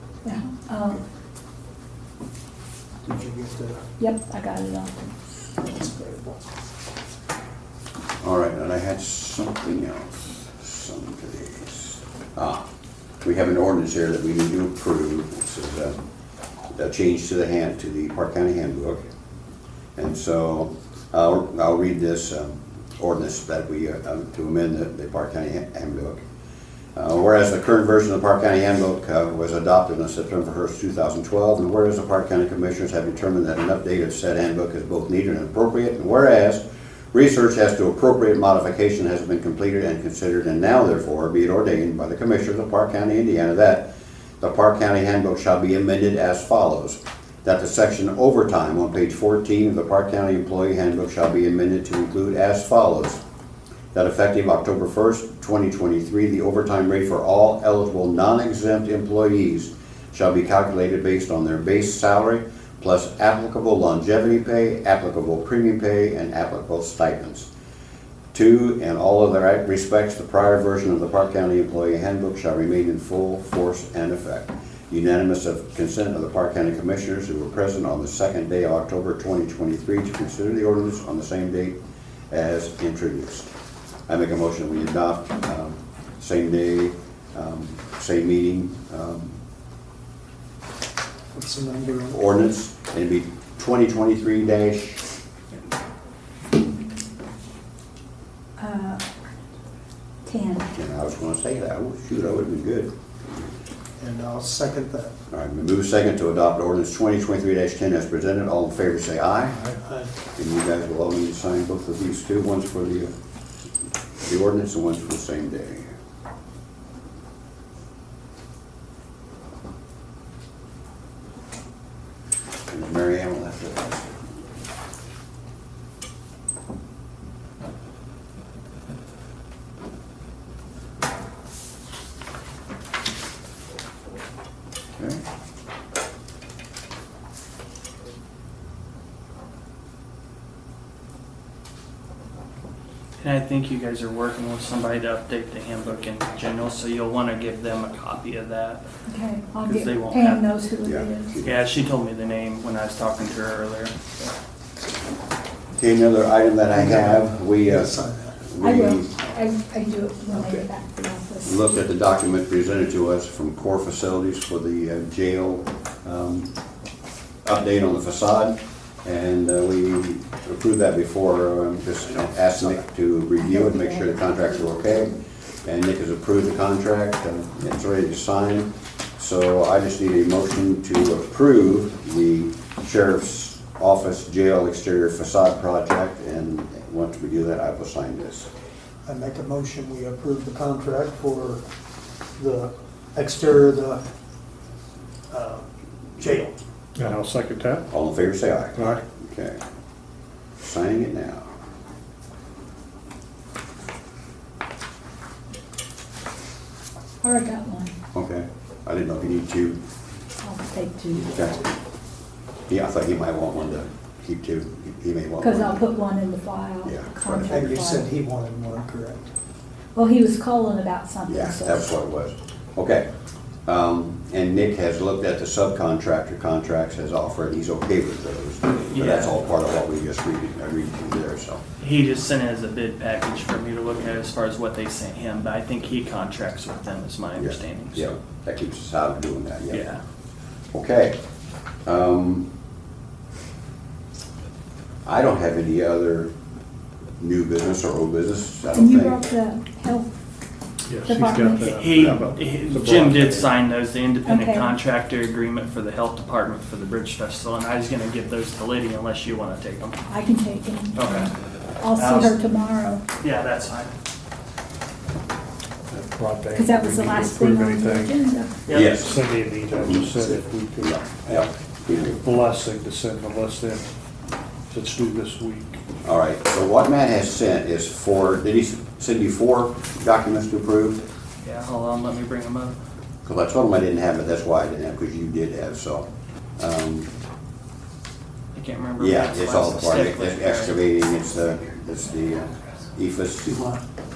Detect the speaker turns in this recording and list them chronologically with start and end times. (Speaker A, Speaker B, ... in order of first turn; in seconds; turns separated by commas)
Speaker A: 0.2-1.0, Speaker B: 3.0-3.9, Speaker A: 4.0-5.1, Speaker B: 5.6-6.4, Speaker C: 8.2-12.6, Speaker C: 13.2-16.0, Speaker C: 16.7-19.0, Speaker C: 19.9-26.2, Speaker C: 26.9-43.9, Speaker C: 44.4-53.2, Speaker C: 53.9-67.5, Speaker C: 68.3-81.8, Speaker C: 82.3-83.5, Speaker C: 84.1-89.4, Speaker B: 91.3-92.2, Speaker C: 92.1-95.0, Speaker A: 98.6-99.1, Speaker A: 100.2-100.7, Speaker C: 100.7-102.9, Speaker B: 104.0-105.1, Speaker C: 105.3-109.6, Speaker B: 109.6-110.1, Speaker C: 110.3-113.1, Speaker C: 114.2-115.9, Speaker C: 122.7-124.2, Speaker C: 135.0-135.2, Speaker D: 143.2-148.8, Speaker A: 149.1-151.3, Speaker D: 149.6-150.4, Speaker C: 150.8-151.6, Speaker D: 151.4-153.9, Speaker C: 155.8-159.1, Speaker B: 156.7-158.4, Speaker A: 158.6-161.6, Speaker B: 160.3-160.6, Speaker C: 161.4-166.5, Speaker C: 167.4-188.5, Speaker B: 172.2-172.8, Speaker A: 173.6-174.2, Speaker B: 189.1-191.6, Speaker B: 192.4-194.0, Speaker B: 195.3-196.6, Speaker E: 196.9-197.9, Speaker C: 197.9-199.6, Speaker E: 198.7-199.0, Speaker C: 200.6-201.5, Speaker A: 207.2-207.9, Speaker C: 208.1-209.8, Speaker A: 210.4-211.5, Speaker C: 211.3-211.6, Speaker C: 212.7-215.9, Speaker A: 215.4-218.1, Speaker C: 216.8-217.8, Speaker B: 217.5-219.3, Speaker A: 219.9-221.8, Speaker C: 221.3-223.1, Speaker C: 223.7-231.6, Speaker D: 228.9-229.4, Speaker D: 231.8-238.1, Speaker C: 237.3-239.9, Speaker D: 239.7-240.0, Speaker C: 240.7-241.2, Speaker C: 241.8-242.5, Speaker C: 245.0-246.3, Speaker C: 247.2-249.2, Speaker A: 248.7-250.1, Speaker E: 250.9-253.5, Speaker A: 251.0-251.8, Speaker D: 251.6-260.0, Speaker C: 251.9-252.2, Speaker A: 254.2-254.7, Speaker A: 260.1-263.0, Speaker D: 260.9-261.3, Speaker D: 261.9-262.4, Speaker D: 263.2-263.9, Speaker E: 265.9-268.2, Speaker A: 266.5-268.5, Speaker D: 268.6-268.9, Speaker C: 268.7-269.1, Speaker E: 268.7-273.8, Speaker B: 269.8-270.4, Speaker C: 270.8-272.2, Speaker E: 274.7-275.8, Speaker C: 276.0-281.0, Speaker D: 281.4-282.8, Speaker C: 283.2-287.1, Speaker D: 288.5-290.9, Speaker C: 289.0-293.6, Speaker B: 293.4-293.8